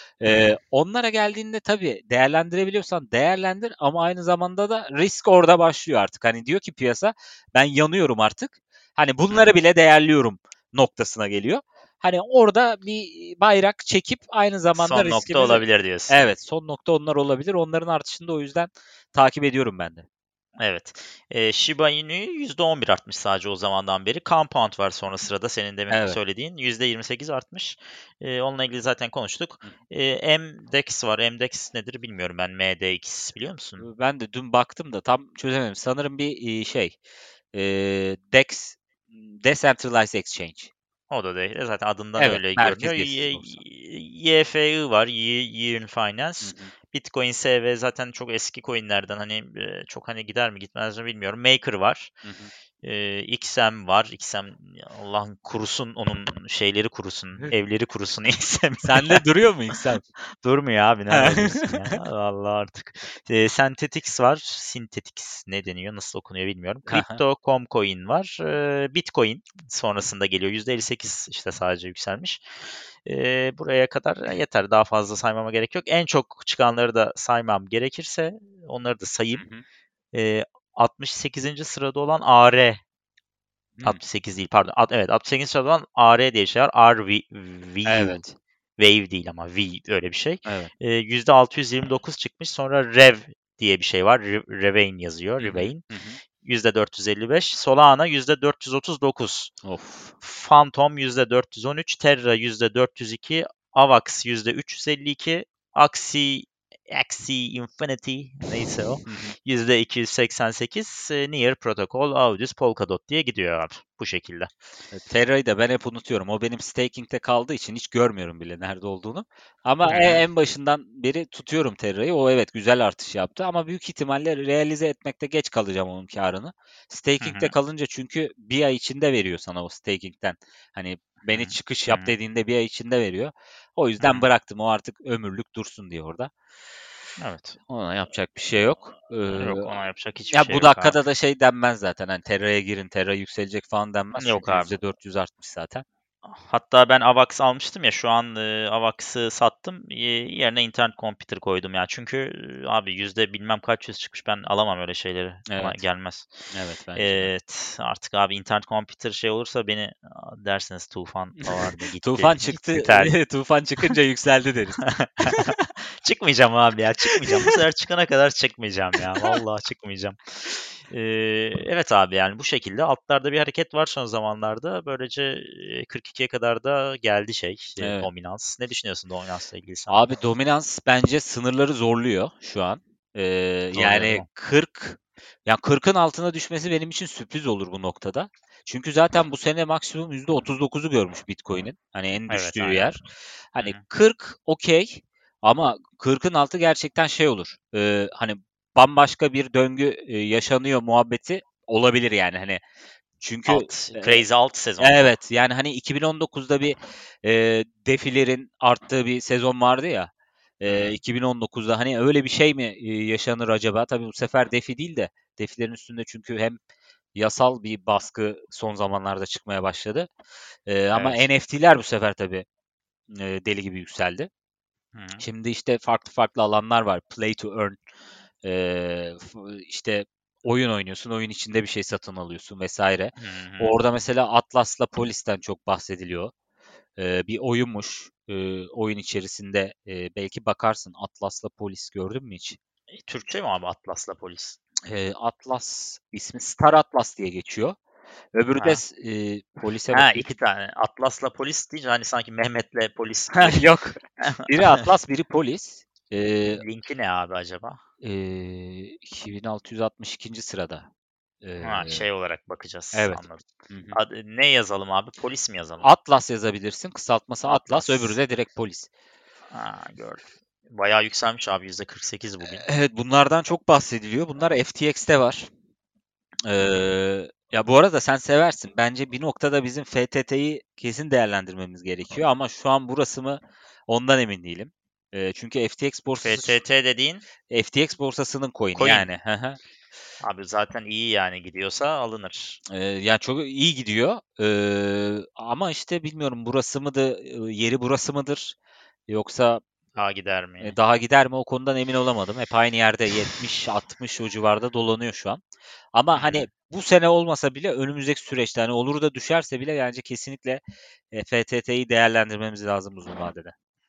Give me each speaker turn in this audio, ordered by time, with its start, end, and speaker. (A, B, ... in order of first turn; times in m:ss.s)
0:00.2-0:20.0 A
0:14.7-0:16.2 B
0:20.6-0:33.8 B
0:25.9-0:26.2 A
0:33.8-0:37.0 A
0:37.5-0:40.7 A
0:41.1-0:52.1 B
0:42.2-0:43.6 A
0:46.4-0:46.7 A
0:52.2-0:52.5 A
0:52.8-0:59.2 B
0:58.8-1:00.0 A
1:00.4-1:12.4 B
1:01.1-1:02.0 A
1:06.9-1:07.2 A
1:13.0-1:19.4 B
1:19.3-1:19.6 A
1:20.1-1:22.8 B
1:23.8-1:28.2 B
1:27.8-1:28.3 A
1:28.8-1:35.8 B
1:30.4-1:30.7 A
1:35.4-1:36.2 A
1:36.4-1:39.5 B
1:39.6-1:40.1 A
1:40.2-1:54.5 B
1:49.0-1:49.3 A
1:54.9-2:16.3 A
1:59.8-2:00.2 B
2:07.2-2:07.5 B
2:11.3-2:12.1 B
2:14.0-2:14.2 B
2:17.2-2:17.6 B
2:17.7-2:19.7 A
2:19.3-2:21.0 B
2:20.3-2:25.8 A
2:24.2-2:24.7 B
2:26.2-2:36.3 B
2:35.5-2:35.8 A
2:36.5-2:37.3 A
2:37.0-2:43.1 B
2:41.5-2:45.5 A
2:44.8-3:00.0 B
2:47.2-2:47.5 A
2:57.8-2:58.1 A
2:59.9-3:13.0 A
3:03.7-3:04.2 B
3:12.3-3:12.9 B
3:13.5-3:22.6 A
3:23.2-3:24.2 A
3:23.5-3:25.1 B
3:24.8-3:36.6 A
3:30.7-3:31.0 B
3:37.1-3:40.1 A
3:40.7-3:42.4 A
3:40.9-3:41.2 B
3:43.1-3:44.3 A
3:44.9-3:45.2 B
3:45.2-3:47.8 A
3:48.4-3:56.3 A
3:53.2-3:53.8 B
3:57.0-4:02.6 A
4:02.9-4:04.6 B
4:04.9-4:07.8 A
4:08.3-4:10.2 A
4:08.5-4:08.8 B
4:09.9-4:13.6 B
4:13.4-4:16.6 A
4:14.2-4:14.9 B
4:16.5-4:17.8 B
4:18.0-4:20.9 A
4:21.4-4:22.1 A
4:21.6-4:25.9 B
4:22.9-4:24.0 A
4:25.8-4:28.9 A
4:27.4-4:28.2 B
4:29.5-4:32.6 B
4:32.4-4:35.5 A
4:36.4-4:46.6 A
4:46.2-4:47.3 B
4:47.5-4:49.6 A
4:48.7-4:49.1 B
4:50.2-4:52.6 B
4:52.7-4:58.6 A
4:59.1-4:59.6 A
5:00.0-5:00.8 B
5:00.6-5:05.4 A
5:05.9-5:13.5 A
5:06.1-5:06.5 B